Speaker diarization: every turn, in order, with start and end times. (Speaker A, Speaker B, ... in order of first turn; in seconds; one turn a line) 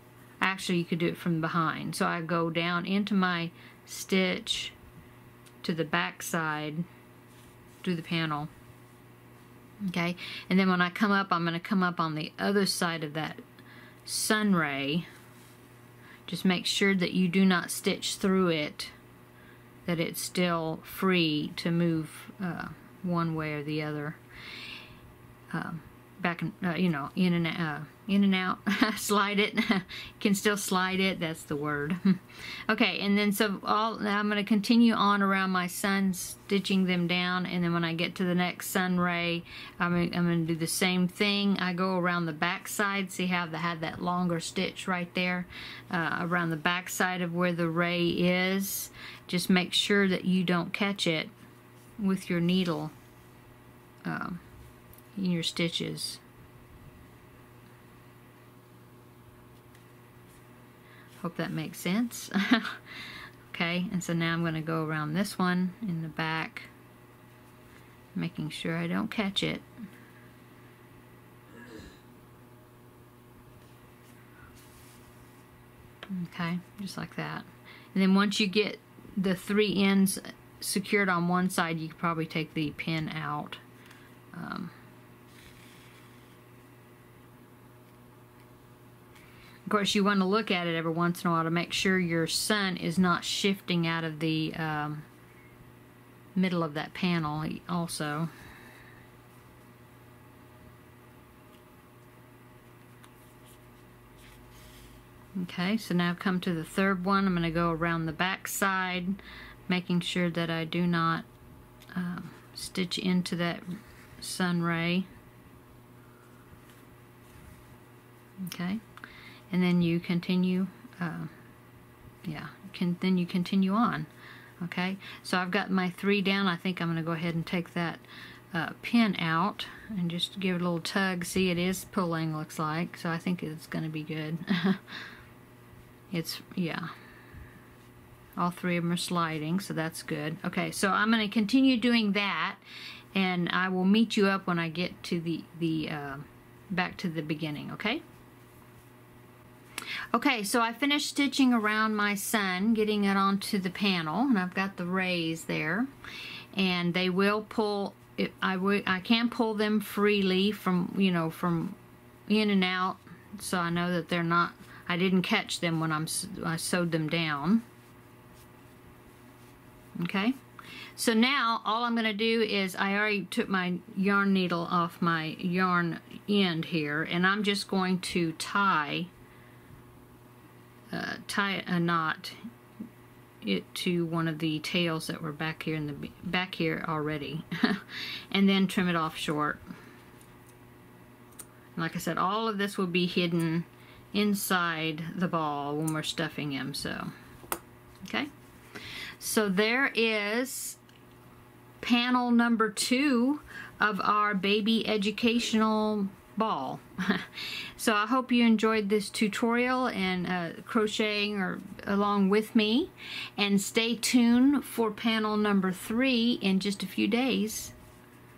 Speaker A: 0.4-4.8
Speaker A: 5.6-6.8
Speaker A: 7.8-8.5
Speaker A: 9.9-13.4
Speaker A: 14.1-15.1
Speaker A: 16.3-18.9
Speaker A: 19.9-24.2
Speaker A: 25.5-51.3
Speaker A: 52.0-52.9
Speaker A: 54.0-54.4
Speaker A: 55.1-56.2
Speaker A: 61.2-62.9
Speaker A: 63.5-66.7
Speaker A: 68.1-69.6
Speaker A: 76.1-83.6
Speaker A: 84.3-84.7
Speaker A: 89.7-95.0
Speaker A: 96.3-98.3
Speaker A: 105.4-111.3
Speaker A: 111.9-115.1
Speaker A: 118.4-118.8
Speaker A: 119.5-121.3
Speaker A: 122.2-124.1
Speaker A: 124.6-135.0
Speaker A: 136.1-136.9
Speaker A: 138.3-142.6
Speaker A: 143.1-148.0
Speaker A: 150.1-155.9
Speaker A: 156.5-167.6
Speaker A: 170.0-170.4
Speaker A: 170.9-179.1
Speaker A: 180.9-182.4
Speaker A: 183.4-189.6
Speaker A: 191.8-197.1
Speaker A: 198.0-198.3
Speaker A: 199.2-200.8
Speaker A: 201.8-217.7